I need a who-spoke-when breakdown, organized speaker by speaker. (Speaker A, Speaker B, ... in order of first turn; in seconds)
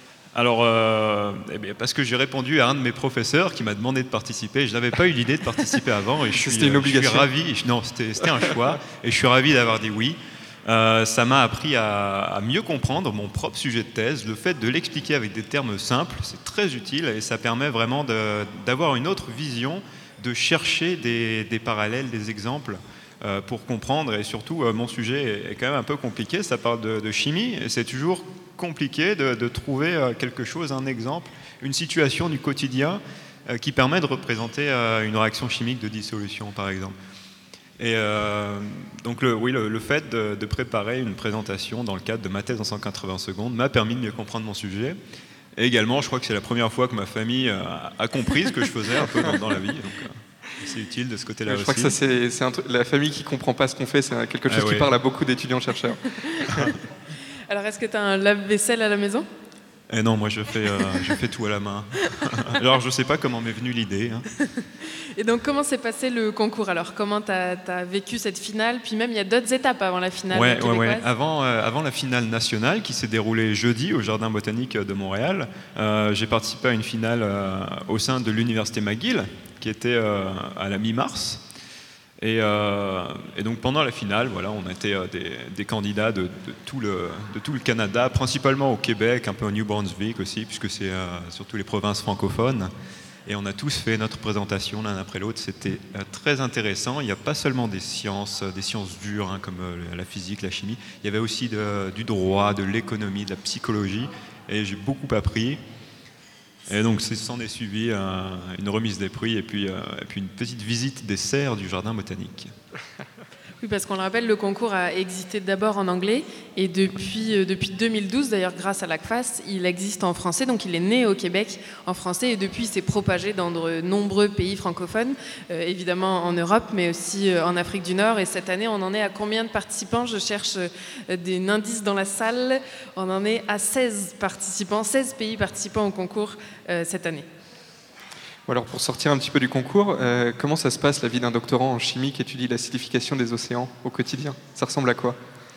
Speaker A: 0.3-37.0, 37.8-45.0, 45.6-52.0, 54.5-54.9, 59.9-64.3, 70.3-81.4, 82.2-92.7, 93.3-105.6, 106.7-112.5
Speaker B: 6.3-7.3, 51.5-56.5, 138.5-145.2
Speaker C: 57.5-59.3, 65.2-71.1, 113.6-137.3